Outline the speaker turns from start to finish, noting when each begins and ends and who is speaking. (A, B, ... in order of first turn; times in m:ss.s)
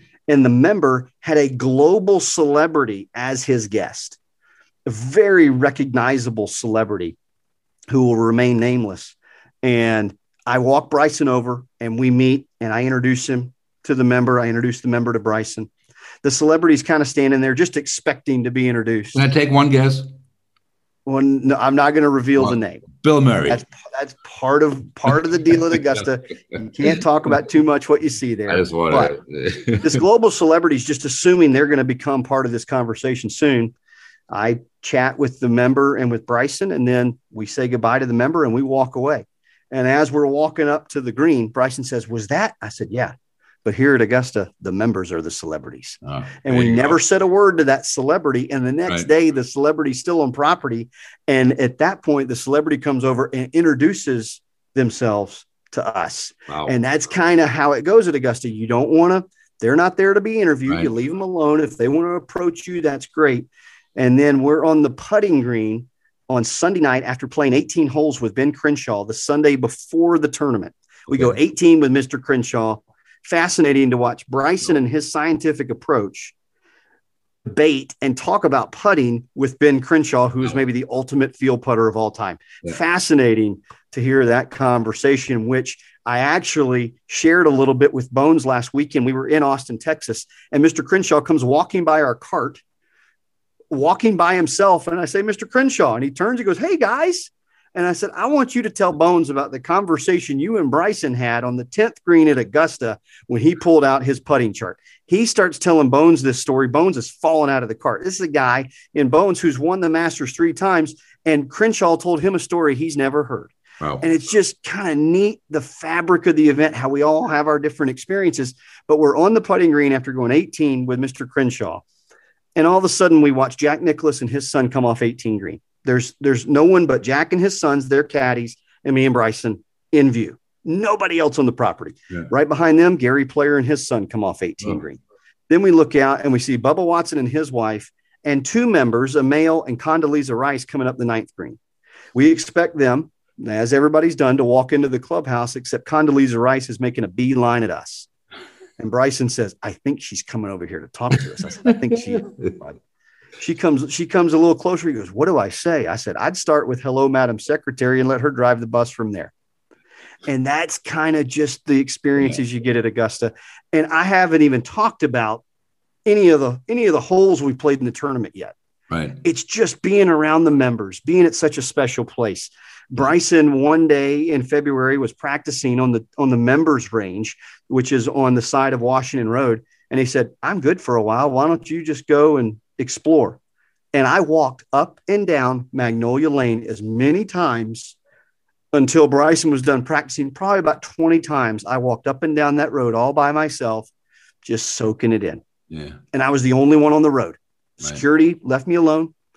0:00.3-0:04.2 A
0:04.9-0:07.2 A
0:07.9-0:15.7 A
0:16.2-0:19.2 A
0:19.1-0:20.1 B
0:21.1-0:22.8 A
0:22.4-0:23.6 B
0:23.5-0:29.2 A
0:28.5-0:30.0 B
0:29.8-0:33.7 A
0:34.3-0:43.1 A
0:43.6-1:16.3 A
0:46.0-0:47.0 B
1:11.1-1:11.4 B
1:17.5-1:32.6 A
1:33.7-2:01.8 A
2:02.6-2:21.6 A
2:22.2-2:28.1 A
2:28.8-2:32.8 A
2:31.9-2:32.6 B
2:33.4-2:39.3 A
2:40.3-2:45.4 A
2:46.1-2:48.6 A
2:48.9-2:49.2 B
2:49.2-3:03.4 A
3:03.9-3:08.0 A
3:08.7-3:13.9 A
3:14.4-3:15.4 A
3:15.7-3:16.0 B
3:16.1-3:19.1 A